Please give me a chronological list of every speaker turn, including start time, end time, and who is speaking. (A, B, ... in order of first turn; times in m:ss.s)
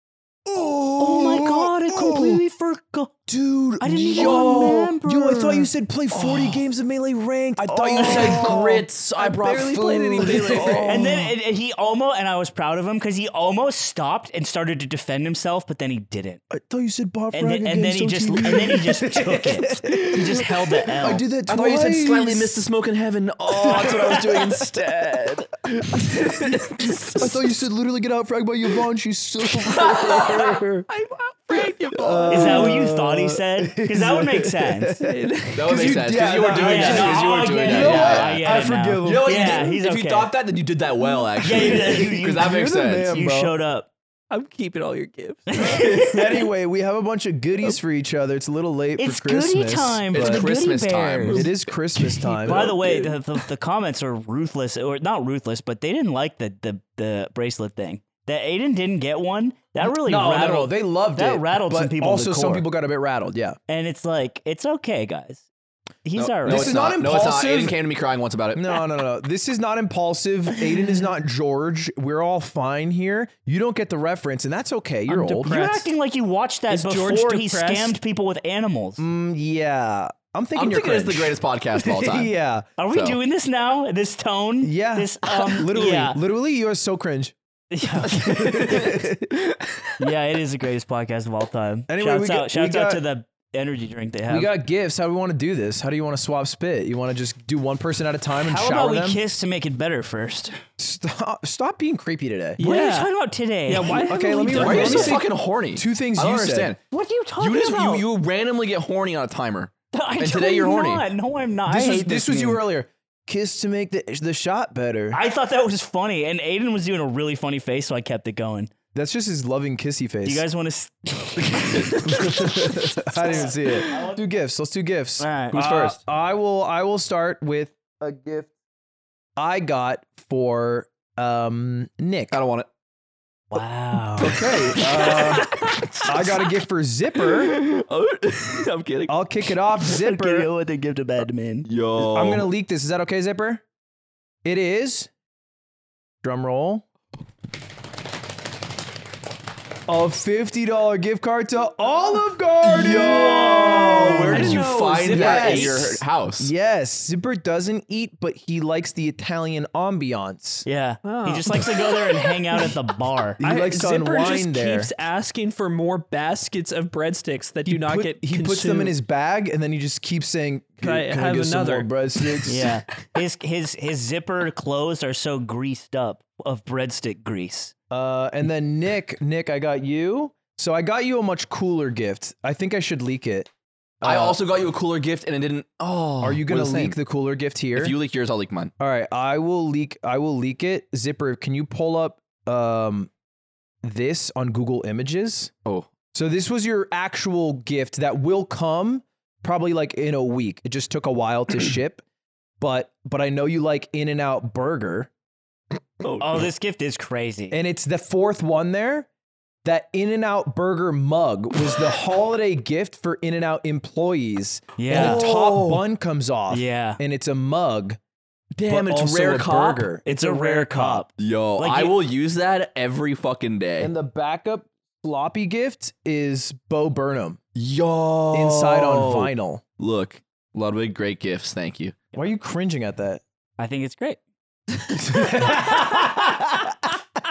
0:00.4-0:02.4 A
0:01.0-0:03.1 B
0:03.3-0:11.3 A
0:03.8-0:05.5 B
0:04.1-0:04.9 C
0:05.5-0:06.6 C
0:07.6-0:10.9 C
0:08.0-0:08.6 D
0:10.1-0:11.1 D
0:10.9-0:16.4 B
0:16.5-0:22.6 A
0:17.3-0:21.3 B
0:19.9-0:20.5 C
0:21.5-0:27.4 C
0:23.5-0:24.6 A
0:27.2-0:30.9 A
0:30.9-0:32.8 D
0:32.0-0:39.5 A
0:32.3-0:35.0 B
0:35.0-0:36.3 D
0:35.6-0:43.2 C
0:36.5-0:40.3 B
0:41.4-0:42.5 B
0:41.6-0:43.6 A
0:43.1-0:43.9 B
0:44.3-0:46.0 D
0:45.5-0:46.2 B
0:45.7-0:50.4 A
0:49.0-0:51.5 B
0:50.1-0:51.5 C
0:51.3-0:52.8 A
0:52.1-0:53.2 D
0:52.4-1:02.7 B
0:59.8-1:03.6 A
1:03.7-1:05.5 B
1:06.0-1:06.7 B
1:06.2-1:08.8 C
1:06.4-1:07.8 A
1:08.5-1:15.9 A
1:15.1-1:19.0 B
1:16.7-1:18.0 D
1:19.0-1:22.7 A
1:20.6-1:22.3 C
1:22.8-1:26.2 B
1:22.9-1:23.2 C
1:24.6-1:27.4 A
1:27.7-1:28.8 B
1:27.9-1:29.3 A
1:28.1-1:30.0 C
1:30.0-1:34.5 B
1:31.9-1:33.0 A
1:34.3-1:39.2 A
1:38.4-1:40.6 B
1:40.8-1:42.6 A
1:42.6-1:43.1 D
1:42.6-1:44.0 B
1:43.7-1:45.2 D
1:43.8-1:46.7 A
1:44.5-1:46.8 C
1:46.9-1:48.0 B
1:47.4-1:51.0 C
1:49.9-1:52.6 B
1:51.7-1:55.2 A
1:55.1-1:58.7 B
1:58.9-2:00.4 A
2:00.2-2:04.2 B
2:01.4-2:02.1 C
2:02.0-2:08.5 A
2:05.2-2:05.6 B
2:05.5-2:06.0 C
2:09.4-2:12.4 A
2:12.3-2:12.7 C
2:13.5-2:15.7 B
2:14.2-2:17.6 A
2:14.2-2:15.5 C
2:17.2-2:19.1 C
2:19.1-2:20.5 A
2:19.8-2:21.7 B
2:21.7-2:22.5 C
2:22.0-2:23.6 A
2:24.4-2:25.1 A
2:26.2-2:26.8 A
2:29.9-2:40.7 A
2:32.6-2:36.5 C
2:33.6-2:34.6 B
2:34.3-2:35.9 D
2:40.6-2:43.4 B
2:41.0-2:42.7 D
2:43.4-2:44.9 A
2:43.4-2:49.0 D
2:47.6-2:52.7 A
2:50.8-2:52.5 D
2:52.4-2:57.7 B
2:57.9-3:03.5 A
3:04.0-3:04.4 A
3:04.0-3:07.0 C
3:06.2-3:08.0 A
3:07.8-3:08.7 C
3:08.8-3:13.1 A
3:13.8-3:15.5 A
3:16.1-3:22.0 A
3:22.6-3:25.1 A
3:26.2-3:27.6 B
3:27.5-3:29.1 A
3:29.6-3:38.0 A
3:34.8-3:35.2 B
3:34.9-3:35.8 C
3:36.5-3:37.0 B
3:38.6-3:39.9 C
3:38.6-3:41.1 A
3:40.0-3:42.0 B
3:41.2-3:43.9 C
3:43.8-3:47.4 A
3:47.6-3:52.1 C
3:48.3-3:49.6 A
3:52.1-3:53.2 A
3:53.6-3:54.2 B
3:54.9-3:56.7 A
3:55.4-3:56.2 B